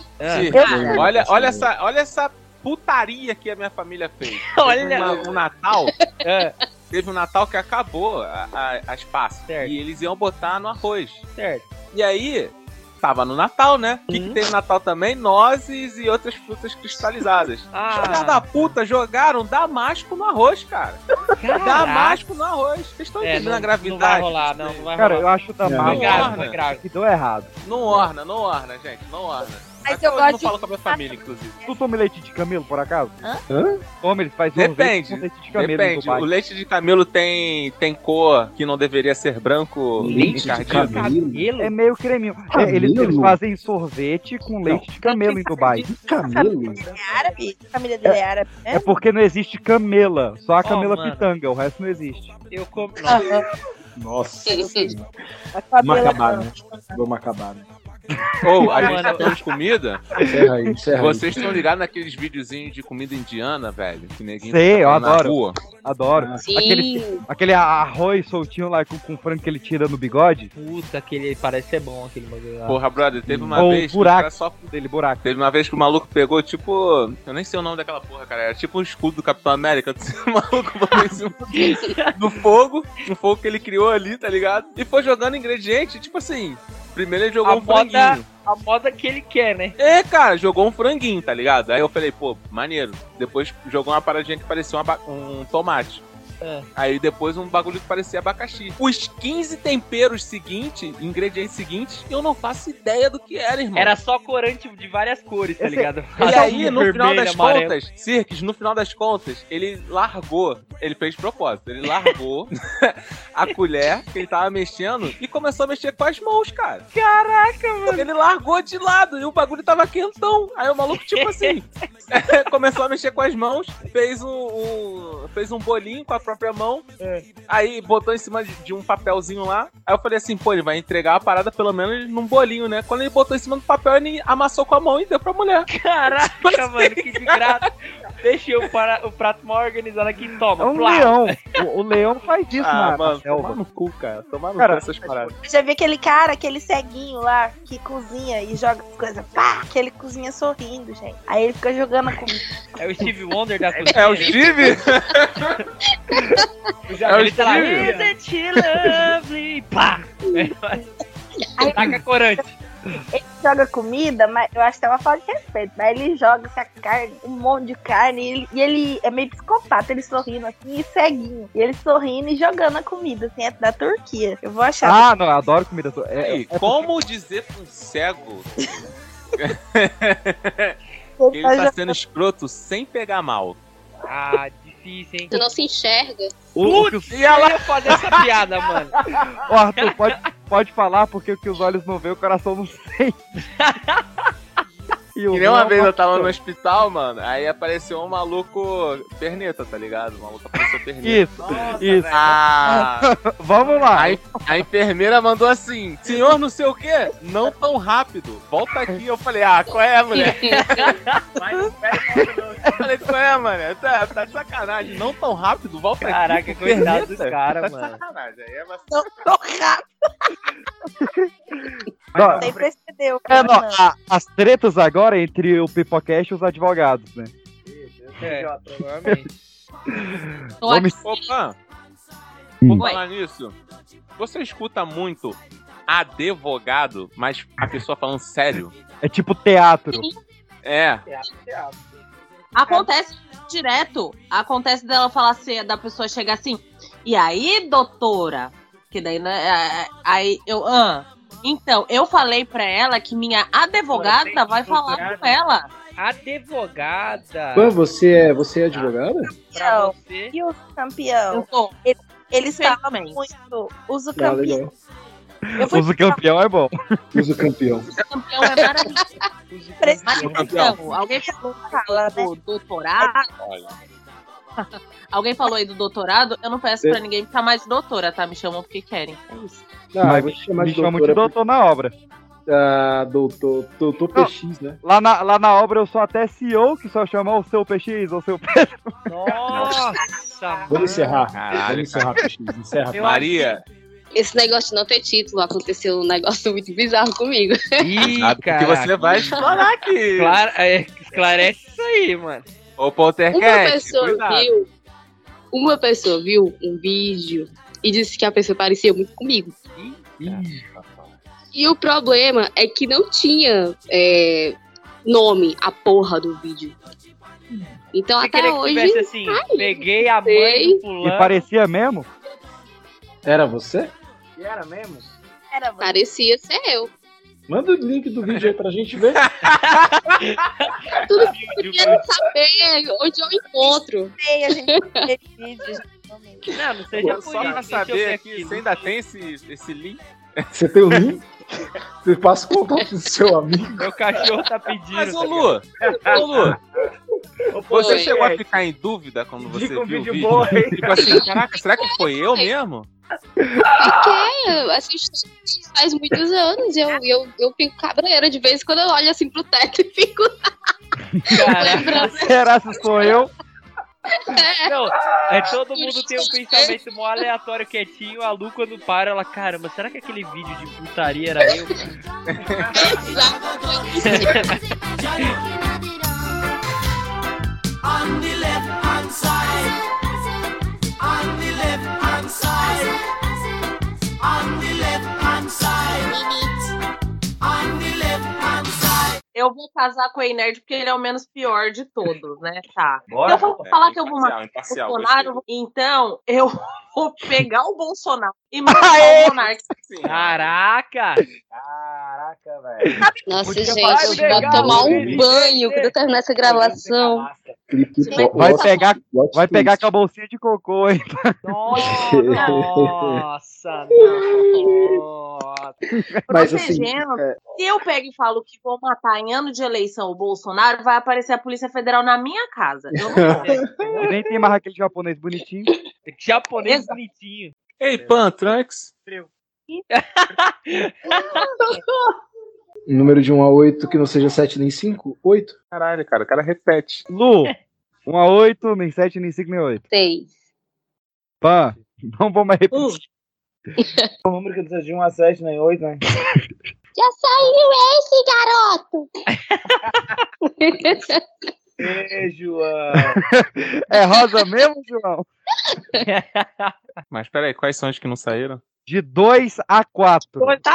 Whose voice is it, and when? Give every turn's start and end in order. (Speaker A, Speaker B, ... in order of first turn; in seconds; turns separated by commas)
Speaker A: 0.2-0.6, Speaker B: 0.3-5.9, Speaker C: 0.5-1.1, Speaker D: 0.6-1.7, Speaker A: 4.5-5.2, Speaker A: 6.2-6.5, Speaker B: 6.9-11.3, Speaker A: 9.5-9.8, Speaker A: 11.4-11.7, Speaker B: 11.9-21.0, Speaker A: 14.1-14.4, Speaker A: 17.7-18.8, Speaker A: 21.4-22.2, Speaker B: 21.6-24.9, Speaker A: 23.2-26.8, Speaker E: 25.0-28.0, Speaker D: 25.6-26.3, Speaker B: 25.8-26.6, Speaker B: 27.6-31.6, Speaker C: 29.8-31.8, Speaker E: 31.7-33.2, Speaker D: 33.5-33.8, Speaker E: 34.0-36.3, Speaker B: 34.5-41.1, Speaker D: 40.0-41.5, Speaker A: 40.0-41.8, Speaker E: 41.6-45.9, Speaker D: 42.5-43.4, Speaker C: 45.0-48.9, Speaker D: 45.8-46.9, Speaker A: 46.9-47.1, Speaker E: 48.7-52.3, Speaker A: 50.6-51.3, Speaker A: 52.5-53.2, Speaker C: 53.1-53.5, Speaker D: 54.0-55.1, Speaker F: 54.5-54.9, Speaker C: 55.5-57.0, Speaker D: 55.8-57.7, Speaker B: 58.4-60.0, Speaker A: 58.7-59.3, Speaker E: 60.2-60.8, Speaker D: 60.2-61.5, Speaker B: 61.0-65.6, Speaker E: 64.4-70.5, Speaker D: 66.1-66.4, Speaker F: 66.4-67.2, Speaker A: 70.5-72.8, Speaker B: 72.7-74.7, Speaker D: 73.3-73.6, Speaker E: 73.5-75.3, Speaker B: 75.2-88.3, Speaker A: 81.5-82.2, Speaker F: 81.6-81.9, Speaker A: 87.4-89.8, Speaker B: 89.8-96.0, Speaker A: 96.4-96.7, Speaker B: 96.8-104.0, Speaker A: 103.8-107.8, Speaker E: 105.6-106.8, Speaker B: 106.2-116.9, Speaker A: 116.9-118.1, Speaker B: 117.9-126.9, Speaker A: 120.9-121.6, Speaker A: 127.0-127.2, Speaker B: 127.5-137.7, Speaker A: 135.7-137.7, Speaker A: 138.2-141.6, Speaker E: 140.6-143.6, Speaker B: 142.6-145.3, Speaker E: 144.6-144.8, Speaker C: 145.4-153.1, Speaker A: 152.8-154.8, Speaker G: 153.8-154.4, Speaker B: 153.9-155.5, Speaker F: 156.1-156.4, Speaker G: 156.9-158.2, Speaker B: 157.1-157.9, Speaker A: 157.1-160.8, Speaker C: 161.6-162.0, Speaker A: 161.7-162.5, Speaker C: 163.1-175.1, Speaker E: 174.8-176.9, Speaker B: 176.1-178.8, Speaker B: 179.4-180.8, Speaker C: 181.2-182.0, Speaker B: 181.3-183.6, Speaker A: 184.1-185.4, Speaker F: 185.3-186.4, Speaker E: 186.6-187.2, Speaker A: 186.6-188.9, Speaker B: 187.1-188.3, Speaker E: 189.4-193.2, Speaker A: 193.6-194.0, Speaker E: 195.2-196.3, Speaker B: 195.3-201.3, Speaker E: 201.0-204.7, Speaker G: 201.4-202.4, Speaker B: 202.1-203.1, Speaker B: 203.9-210.8, Speaker F: 210.1-210.8, Speaker A: 210.5-211.2, Speaker G: 211.4-212.9, Speaker B: 212.8-218.9, Speaker A: 216.0-218.0, Speaker C: 218.9-219.8, Speaker E: 221.0-222.5, Speaker G: 222.1-222.7, Speaker C: 222.4-223.8, Speaker E: 223.3-227.3, Speaker G: 227.7-229.0, Speaker A: 228.2-229.3, Speaker E: 229.9-231.0, Speaker H: 230.6-231.3, Speaker B: 231.1-231.6, Speaker B: 232.7-233.6, Speaker B: 234.2-238.7, Speaker E: 239.0-240.1, Speaker B: 240.6-241.1, Speaker G: 241.1-241.8, Speaker H: 242.6-255.7, Speaker G: 253.9-255.3, Speaker A: 254.2-255.1, Speaker A: 256.0-257.8, Speaker D: 257.6-259.4, Speaker C: 259.5-264.6, Speaker A: 259.5-260.3, Speaker H: 261.3-261.7, Speaker H: 262.5-263.2, Speaker D: 264.1-264.7, Speaker E: 265.5-266.8, Speaker C: 265.6-266.2, Speaker D: 267.1-267.9, Speaker H: 268.0-269.0, Speaker A: 269.5-270.5, Speaker C: 269.8-272.3, Speaker H: 270.1-273.3, Speaker B: 270.3-270.8, Speaker B: 273.4-273.7, Speaker H: 274.6-279.6, Speaker D: 279.9-281.3, Speaker E: 280.0-281.9, Speaker D: 282.5-284.8, Speaker E: 284.8-289.1, Speaker A: 289.1-291.2, Speaker B: 289.5-289.8, Speaker D: 290.7-293.3, Speaker B: 291.3-292.3, Speaker B: 292.9-293.6, Speaker A: 292.9-293.6, Speaker F: 294.1-297.9, Speaker A: 297.8-299.4, Speaker B: 298.1-300.4, Speaker A: 300.2-302.5, Speaker B: 302.8-304.5, Speaker F: 303.3-304.7, Speaker F: 305.5-309.6, Speaker A: 309.8-310.4, Speaker D: 310.2-310.6, Speaker F: 311.5-316.8, Speaker F: 317.9-320.8, Speaker A: 318.2-321.4, Speaker E: 321.0-322.1, Speaker D: 323.2-323.9, Speaker G: 324.4-325.1, Speaker C: 325.5-326.0, Speaker F: 325.8-326.9, Speaker D: 327.5-329.2, Speaker B: 328.3-328.5, Speaker B: 329.1-329.8, Speaker A: 329.6-332.0, Speaker F: 331.0-335.1, Speaker C: 333.6-336.5, Speaker A: 336.5-338.9, Speaker D: 337.0-337.4, Speaker B: 337.0-340.4, Speaker D: 340.5-341.3, Speaker D: 342.0-344.2, Speaker A: 343.8-345.6, Speaker B: 344.9-346.6, Speaker G: 345.9-346.9, Speaker G: 347.5-348.5, Speaker B: 347.7-352.9, Speaker F: 347.7-348.2, Speaker G: 349.4-351.2, Speaker F: 351.0-352.5, Speaker F: 353.8-360.3, Speaker A: 361.3-362.1, Speaker F: 361.4-363.2, Speaker E: 361.9-363.3, Speaker F: 364.1-364.7, Speaker A: 364.6-371.7, Speaker F: 365.8-366.8, Speaker B: 372.3-372.6, Speaker F: 372.7-374.6, Speaker A: 374.0-374.6, Speaker I: 378.0-379.1, Speaker I: 381.3-382.5, Speaker I: 385.4-385.8, Speaker H: 389.4-399.6, Speaker G: 393.1-393.6, Speaker B: 393.6-395.4, Speaker E: 398.7-399.6, Speaker B: 399.8-400.5, Speaker A: 400.0-401.2, Speaker G: 401.5-407.6, Speaker E: 402.9-405.3, Speaker F: 403.2-407.3, Speaker A: 403.8-405.2, Speaker D: 404.5-405.2, Speaker D: 407.7-409.9, Speaker C: 408.1-408.8, Speaker E: 408.3-411.4, Speaker A: 411.4-415.8, Speaker D: 411.7-413.2, Speaker D: 413.9-415.0, Speaker E: 416.1-416.3, Speaker D: 416.3-417.4, Speaker H: 416.3-423.5, Speaker D: 422.9-424.0, Speaker A: 423.2-424.1, Speaker E: 424.0-425.7, Speaker A: 426.1-427.5, Speaker H: 426.6-426.9, Speaker B: 427.8-428.9, Speaker G: 427.9-428.5, Speaker G: 429.1-429.3, Speaker A: 429.9-431.4, Speaker D: 432.9-435.6, Speaker B: 435.7-437.1, Speaker E: 437.1-437.5, Speaker E: 438.1-439.8, Speaker F: 439.9-440.3, Speaker E: 441.4-443.0, Speaker H: 442.7-443.0, Speaker F: 443.8-444.1, Speaker G: 444.3-446.0, Speaker F: 447.0-449.1, Speaker A: 449.4-450.2, Speaker F: 450.6-451.2, Speaker G: 451.8-453.2, Speaker E: 453.3-455.3, Speaker A: 456.0-456.8, Speaker B: 457.1-458.6, Speaker E: 458.9-460.6